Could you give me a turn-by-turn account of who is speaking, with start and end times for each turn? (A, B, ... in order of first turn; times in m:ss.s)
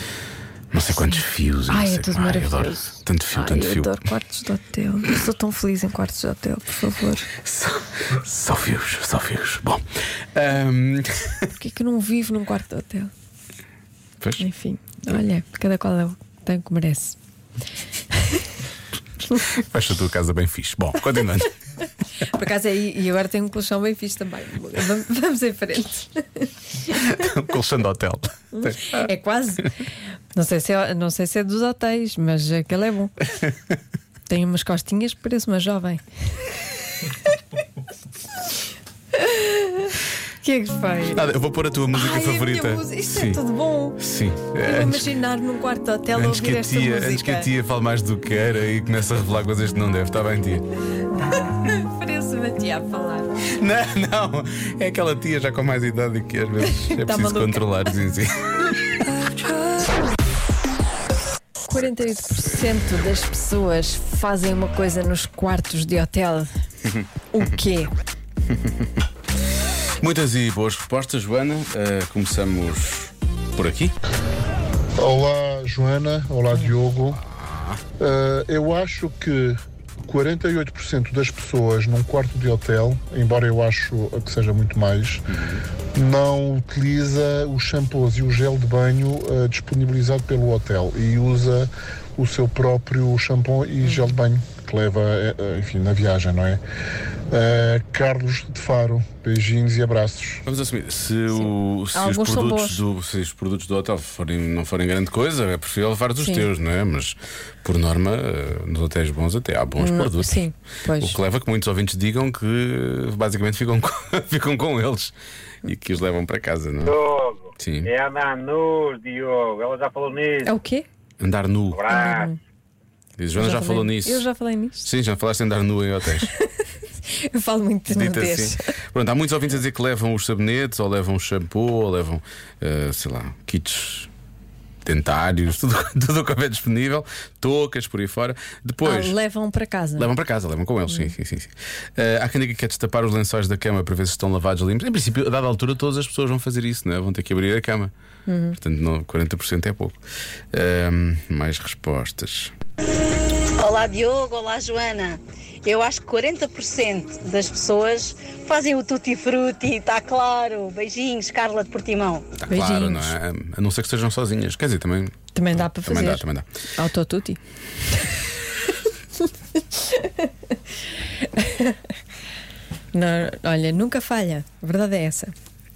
0:00.7-0:03.9 A
0:01.7-0:07.3 B
0:07.4-0:09.8 A
0:10.3-0:11.5 A
0:11.6-0:13.1 B
0:14.4-0:17.2 B
0:19.5-0:21.5 A
0:22.2-0:27.0 B
0:27.0-0:29.0 A
0:28.6-0:29.7 B
0:30.3-0:33.2 B
0:34.3-0:36.0 B
0:39.1-0:41.3 B
0:41.1-0:43.4 A
0:41.9-0:44.0 B
0:44.0-0:45.1 A
0:44.6-0:47.5 B
0:46.1-0:50.6 A
0:51.2-0:53.4 B
0:53.6-0:58.8 A
0:56.6-0:57.8 B
1:01.6-1:06.5 B
1:07.3-1:07.9 B
1:10.0-1:13.9 A
1:15.0-1:17.2 C
1:17.4-1:17.8 A
1:18.0-1:25.3 C
1:25.3-1:25.6 A
1:25.9-1:36.6 C
1:33.8-1:34.1 B
1:37.3-1:40.4 C
1:40.4-1:50.3 A
1:41.4-1:42.8 B
1:46.2-1:46.5 B
1:49.8-1:51.2 B
1:51.0-1:55.1 A
1:55.7-1:56.9 A
1:56.8-2:00.5 D
1:57.6-1:57.9 A
2:00.4-2:00.8 B
2:01.2-2:01.8 A
2:01.7-2:02.3 D
2:01.9-2:02.4 B
2:03.2-2:04.3 A
2:03.3-2:04.8 B
2:04.8-2:06.3 A
2:07.1-2:08.6 B
2:07.9-2:14.1 A
2:14.8-2:19.1 A
2:18.8-2:20.1 B
2:20.0-2:27.9 A
2:28.2-2:28.6 B
2:28.6-2:30.0 A
2:30.5-2:32.5 A
2:33.6-2:35.1 E
2:35.6-2:42.1 E
2:42.4-2:46.4 A
2:42.5-2:43.1 B
2:45.3-2:46.2 B
2:46.8-2:47.4 B
2:49.8-2:50.3 B
2:51.2-2:51.8 B
2:52.9-2:55.3 B